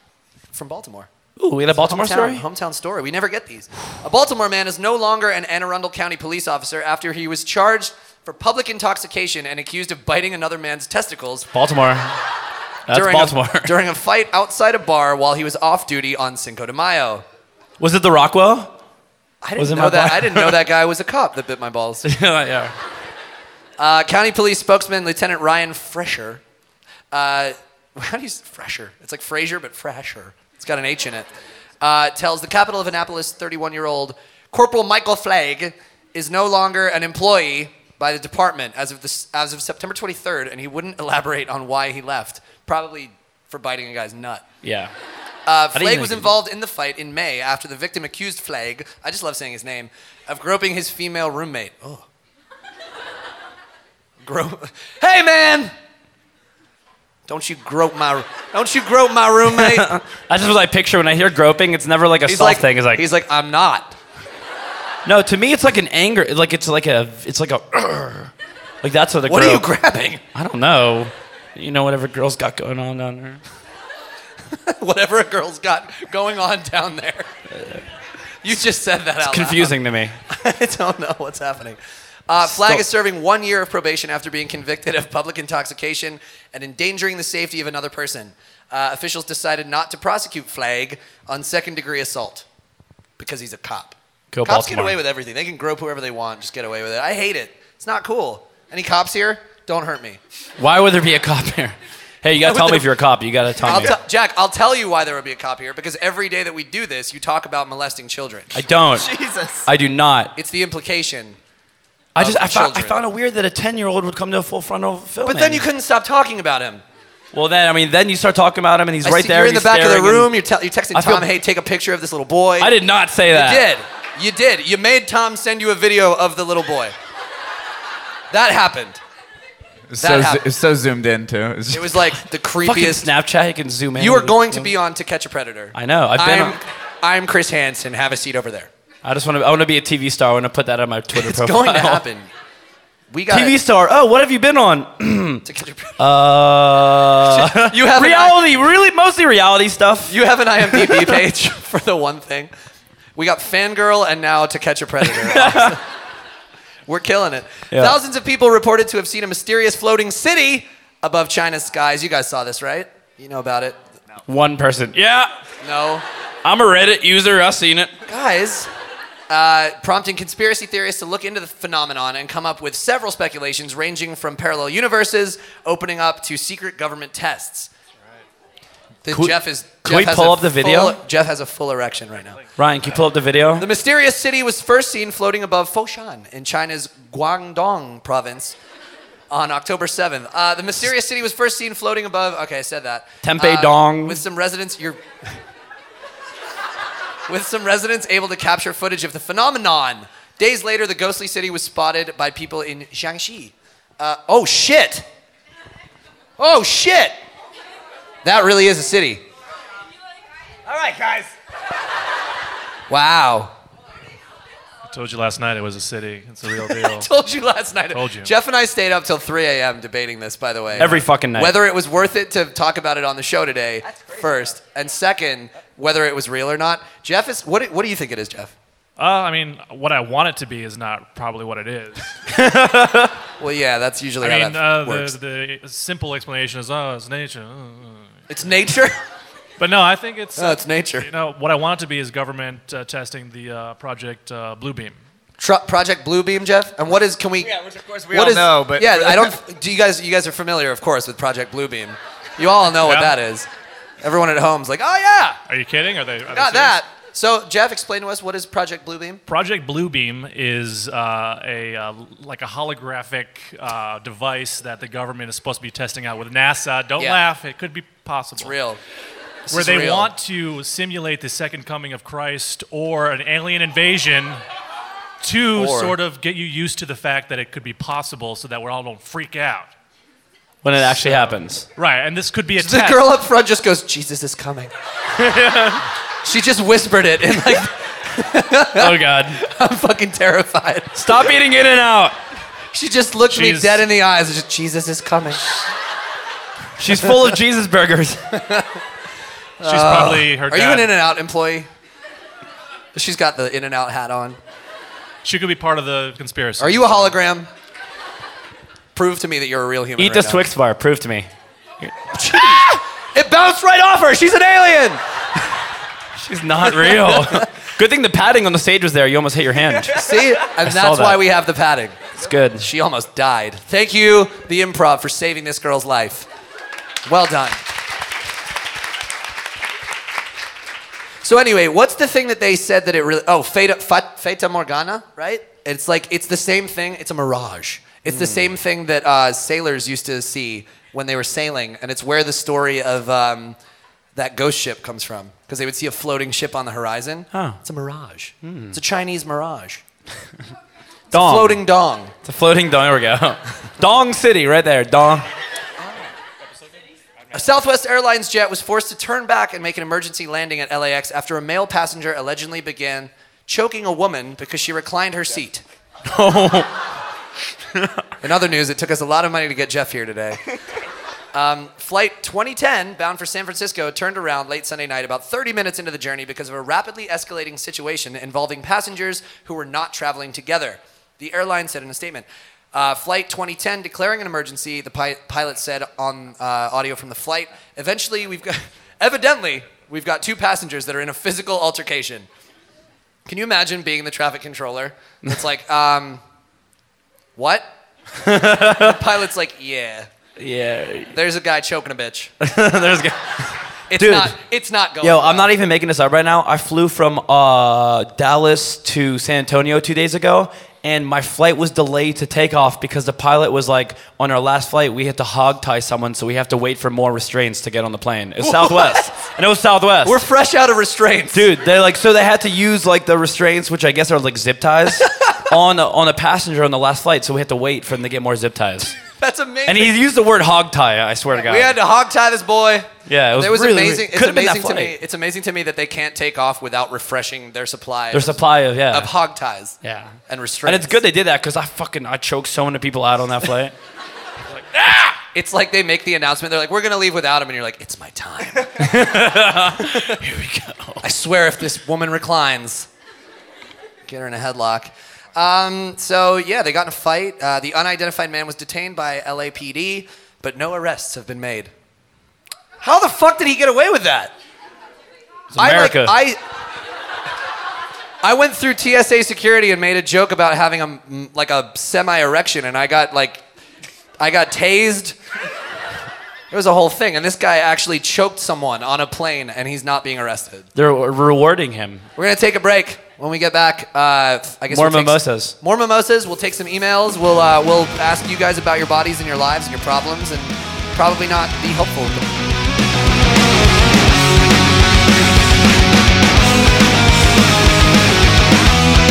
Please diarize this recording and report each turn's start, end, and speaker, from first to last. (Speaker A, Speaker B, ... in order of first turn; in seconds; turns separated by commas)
Speaker A: 0.5-1.1, Speaker B: 1.4-2.4, Speaker A: 1.7-11.5, Speaker B: 11.5-12.2, Speaker B: 12.9-13.7, Speaker A: 12.9-17.2, Speaker B: 17.8-18.7, Speaker A: 19.4-22.1, Speaker B: 19.6-20.6, Speaker B: 22.0-22.7, Speaker A: 23.8-26.4, Speaker A: 27.1-31.3, Speaker A: 31.8-44.4, Speaker B: 44.6-44.9, Speaker A: 45.5-52.0, Speaker B: 45.7-46.3, Speaker A: 54.2-55.7, Speaker A: 57.3-59.9, Speaker B: 59.5-63.0, Speaker A: 62.2-64.0, Speaker B: 65.0-68.3, Speaker B: 68.8-69.7, Speaker A: 69.2-70.2, Speaker B: 70.3-73.4, Speaker A: 74.5-77.3, Speaker A: 78.4-79.8, Speaker B: 79.2-80.2, Speaker A: 80.3-92.4, Speaker B: 82.4-82.8, Speaker A: 93.2-100.2, Speaker B: 94.3-95.0, Speaker B: 100.6-104.0, Speaker A: 102.3-102.9, Speaker A: 103.6-108.6, Speaker B: 108.5-109.1, Speaker C: 109.1-109.6, Speaker B: 109.6-110.3, Speaker A: 110.3-111.4, Speaker B: 112.1-115.6, Speaker A: 112.2-113.0, Speaker A: 115.2-116.8, Speaker B: 117.3-120.4, Speaker A: 119.0-122.7, Speaker B: 120.9-121.3, Speaker B: 122.6-123.7, Speaker A: 123.3-126.9, Speaker A: 128.3-129.0, Speaker C: 129.9-132.0, Speaker A: 130.0-130.4, Speaker A: 131.7-133.1, Speaker B: 132.6-134.7, Speaker A: 133.9-138.7, Speaker B: 135.7-136.6, Speaker B: 139.0-142.0, Speaker A: 141.1-142.3, Speaker A: 143.1-143.6, Speaker B: 143.3-145.4, Speaker A: 145.4-146.0, Speaker B: 146.0-150.2, Speaker A: 147.3-148.4, Speaker A: 150.1-152.5, Speaker B: 150.7-151.1, Speaker A: 153.2-155.8, Speaker B: 155.1-155.8, Speaker A: 156.9-163.8, Speaker B: 157.7-157.9, Speaker B: 164.3-165.3, Speaker A: 165.6-166.0, Speaker B: 166.4-167.9, Speaker A: 168.1-168.7, Speaker A: 169.3-177.7, Speaker A: 179.0-182.4, Speaker B: 179.1-181.0, Speaker B: 182.6-183.7, Speaker A: 183.6-188.6, Speaker A: 189.3-195.0, Speaker B: 193.2-194.2, Speaker A: 197.3-205.1, Speaker A: 206.4-207.2, Speaker A: 208.2-209.2, Speaker A: 210.7-211.3, Speaker A: 212.9-213.5, Speaker D: 214.9-217.1, Speaker A: 216.7-228.5, Speaker D: 217.9-218.3, Speaker B: 220.8-221.6, Speaker D: 229.0-232.2, Speaker B: 232.3-233.1, Speaker A: 233.4-235.2, Speaker D: 234.2-238.1, Speaker A: 238.3-238.9, Speaker D: 239.6-245.0, Speaker A: 240.3-241.1, Speaker A: 245.4-253.5, Speaker C: 247.5-249.3, Speaker D: 252.8-253.2, Speaker A: 254.0-255.4, Speaker D: 255.5-256.8, Speaker A: 256.3-259.2, Speaker D: 259.3-268.5, Speaker A: 268.4-268.8, Speaker A: 269.5-270.1, Speaker D: 269.5-274.4, Speaker D: 275.2-279.7, Speaker A: 275.5-275.9, Speaker B: 280.6-281.6, Speaker D: 280.8-283.1, Speaker A: 282.6-284.7, Speaker B: 285.2-285.8, Speaker A: 286.2-291.1, Speaker B: 288.7-289.4, Speaker B: 290.9-292.2, Speaker A: 292.7-295.5, Speaker D: 293.3-293.9, Speaker B: 296.8-298.2, Speaker A: 298.3-298.8, Speaker A: 299.6-301.7, Speaker D: 299.6-300.9, Speaker A: 302.9-304.4, Speaker D: 305.2-307.1, Speaker A: 306.6-307.5, Speaker A: 308.9-310.5, Speaker B: 310.0-311.3, Speaker A: 312.1-315.0, Speaker B: 316.2-321.2, Speaker A: 316.7-317.5, Speaker A: 319.9-322.0, Speaker B: 322.2-322.6, Speaker A: 322.5-326.3, Speaker A: 327.1-327.6, Speaker A: 331.2-343.6, Speaker B: 338.1-338.5, Speaker A: 344.1-349.8, Speaker B: 347.3-347.6, Speaker B: 348.4-348.8, Speaker A: 351.1-352.1, Speaker B: 351.1-351.6, Speaker B: 352.2-355.2, Speaker A: 357.3-365.6, Speaker B: 366.1-366.7, Speaker B: 367.8-368.0, Speaker A: 368.2-370.4, Speaker A: 371.3-392.3, Speaker A: 393.2-396.2, Speaker A: 397.4-397.7, Speaker B: 398.2-399.0, Speaker A: 398.5-400.1, Speaker B: 400.4-401.1, Speaker A: 401.1-402.3, Speaker B: 402.4-404.3, Speaker A: 403.9-405.5, Speaker B: 405.0-420.2, Speaker A: 418.4-419.0, Speaker A: 420.0-421.5, Speaker B: 421.3-428.9, Speaker A: 425.0-425.3, Speaker A: 429.1-430.0, Speaker B: 429.6-431.7, Speaker A: 431.3-441.0, Speaker B: 433.1-434.9, Speaker B: 438.1-439.1, Speaker B: 439.8-443.7, Speaker B: 444.5-445.2, Speaker A: 445.3-450.2, Speaker B: 448.8-451.0, Speaker A: 451.0-452.9, Speaker A: 454.1-461.7, Speaker A: 462.8-464.3, Speaker B: 465.5-466.2, Speaker A: 465.6-466.4, Speaker A: 468.2-473.4, Speaker A: 474.2-475.2, Speaker A: 476.5-480.7, Speaker B: 480.7-482.1, Speaker A: 482.1-492.4, Speaker B: 484.7-485.6